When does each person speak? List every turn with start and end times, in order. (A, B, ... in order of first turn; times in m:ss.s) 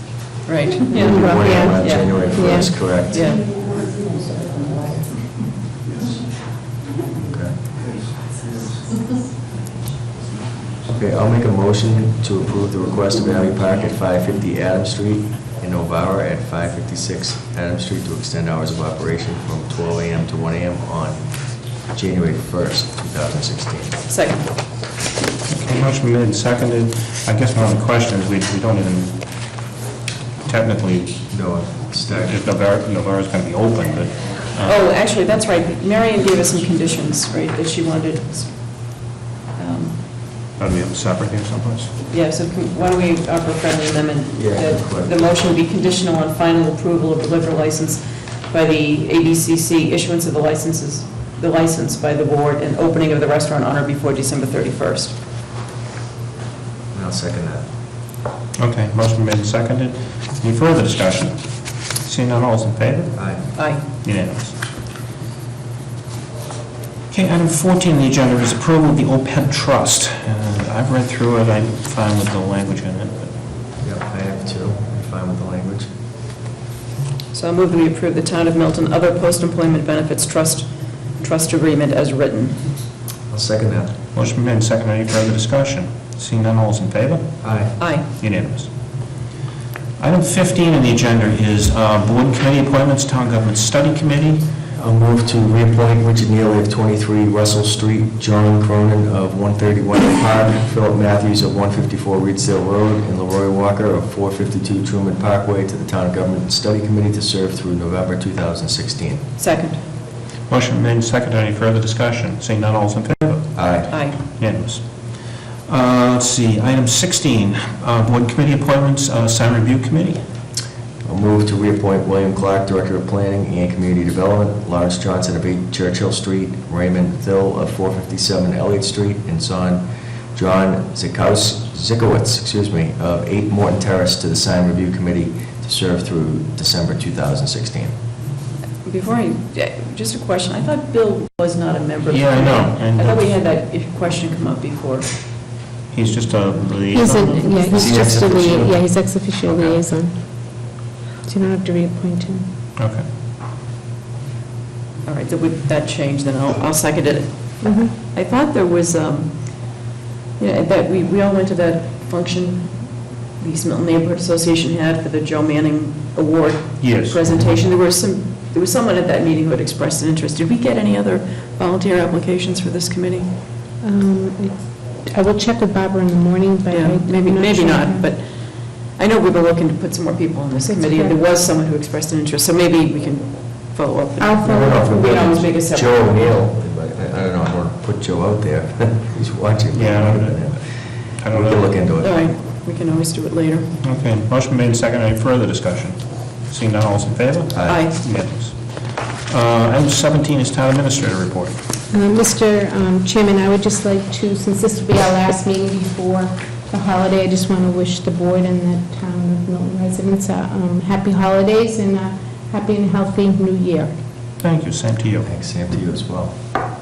0:00.5-0:02.3 A
0:01.0-0:01.8 B
0:01.0-0:03.2 C
0:02.3-0:02.8 B
0:03.0-0:03.5 A
0:07.2-0:07.6 C
0:10.9-0:21.2 C
0:21.8-0:24.0 C
0:24.1-0:24.5 A
0:25.5-0:29.4 D
0:30.4-0:31.2 D
0:31.3-0:32.4 C
0:32.3-0:34.8 D
0:34.6-0:40.0 A
0:40.6-0:41.9 D
0:42.1-0:55.2 A
0:44.4-0:45.2 C
0:56.9-0:57.6 C
0:58.6-1:04.6 D
1:03.2-1:03.4 C
1:03.6-1:03.8 A
1:07.1-1:13.3 D
1:13.8-1:15.9 C
1:17.3-1:22.6 A
1:23.3-1:23.9 C
1:24.1-1:27.3 D
1:27.4-1:27.8 C
1:27.8-1:28.1 A
1:28.2-1:28.7 D
1:30.0-1:34.5 D
1:34.8-1:49.2 C
1:49.4-1:49.8 A
1:50.5-1:54.8 D
1:53.6-1:53.9 C
1:53.9-1:54.2 A
1:55.7-2:00.2 D
2:01.1-2:09.8 C
2:10.4-2:17.9 C
2:18.8-2:25.1 A
2:22.1-2:23.4 D
2:25.9-2:27.5 D
2:26.9-2:30.1 B
2:27.0-2:27.9 A
2:27.7-2:28.9 C
2:31.2-2:32.5 B
2:32.8-2:33.0 D
2:35.1-2:39.9 A
2:37.6-2:37.9 B
2:40.4-2:53.3 A
2:46.8-2:47.3 D
2:53.8-2:58.1 B
2:56.7-3:06.2 A
3:00.8-3:01.2 B
3:04.2-3:05.2 B
3:04.4-3:10.6 C
3:09.7-3:10.5 D
3:11.2-3:11.7 D
3:11.3-3:12.2 C
3:12.0-3:13.7 A
3:13.8-3:18.6 D
3:17.5-3:17.9 C
3:17.7-3:18.0 A
3:19.3-3:21.6 D
3:21.9-3:33.9 B
3:34.4-3:35.3 D
3:35.2-3:36.3 C